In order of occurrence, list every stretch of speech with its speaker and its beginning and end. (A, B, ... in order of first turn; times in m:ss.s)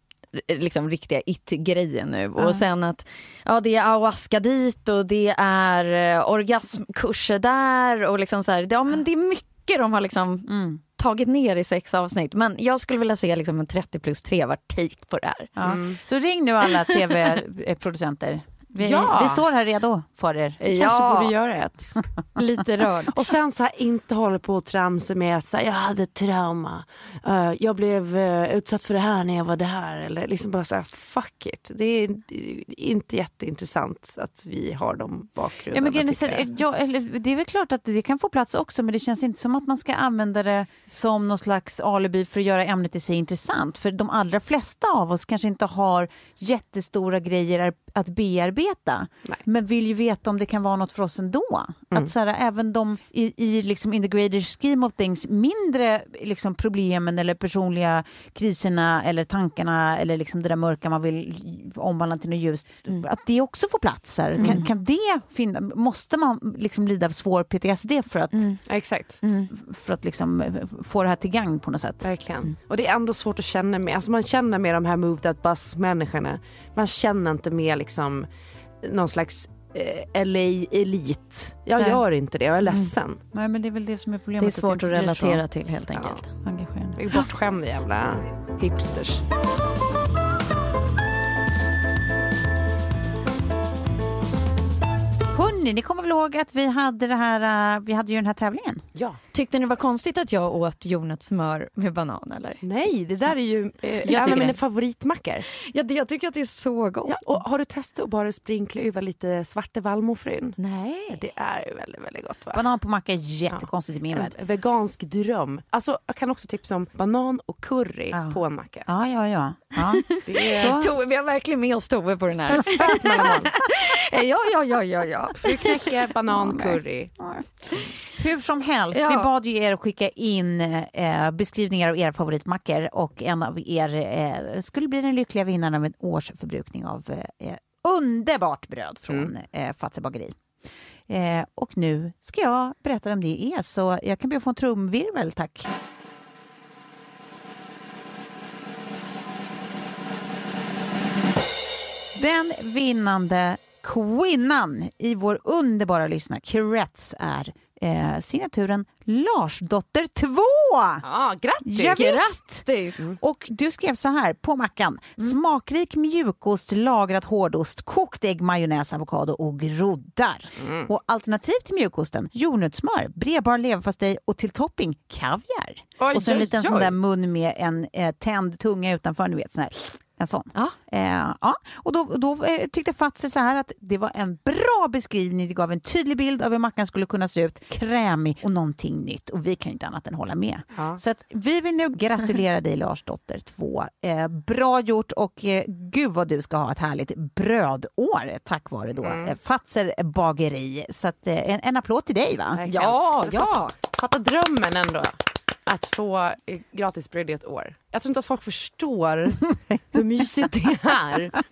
0:00.3-0:15.5 A
0:02.4-0:02.6 B
0:10.5-0:10.8 B
0:15.6-0:20.6 B
0:15.6-0:16.0 C
0:18.8-0:19.4 C
0:20.6-0:21.3 A
0:20.7-0:21.9 C
0:22.4-0:23.2 A
0:23.1-0:36.5 C
0:35.7-1:08.5 B
1:04.4-1:04.6 A
1:08.3-1:08.6 A
1:08.7-1:09.2 C
1:09.2-1:09.5 A
1:09.5-1:12.1 B
1:12.0-1:18.3 C
1:18.8-1:23.2 C
1:23.3-1:25.4 B
1:24.4-1:26.2 A
1:26.0-1:26.2 C
1:26.4-1:27.0 B
1:26.9-1:29.2 C
1:35.3-1:38.8 B
1:39.3-1:42.6 A
1:42.6-1:45.5 C
1:44.0-1:44.6 B
1:45.6-1:47.4 A
1:47.1-1:50.6 C
1:50.6-1:51.2 A
1:51.1-1:52.6 C
1:52.5-1:54.3 B
1:53.5-1:58.9 C
1:58.1-2:00.9 B
2:00.2-2:05.8 A
2:00.2-2:00.7 C
2:02.6-2:03.5 C
2:02.7-2:03.4 B
2:05.4-2:07.1 C
2:06.4-2:20.4 B
2:08.9-2:09.3 A
2:21.1-2:25.7 B
2:32.1-2:41.0 B
2:41.0-2:42.0 C
2:41.6-2:42.7 B
2:41.9-2:43.1 A
2:43.2-3:22.6 B
2:50.6-2:50.9 C
2:56.0-2:57.0 C
3:10.7-3:11.0 C
3:19.0-3:19.3 C
3:22.5-3:31.4 C
3:22.7-3:23.7 A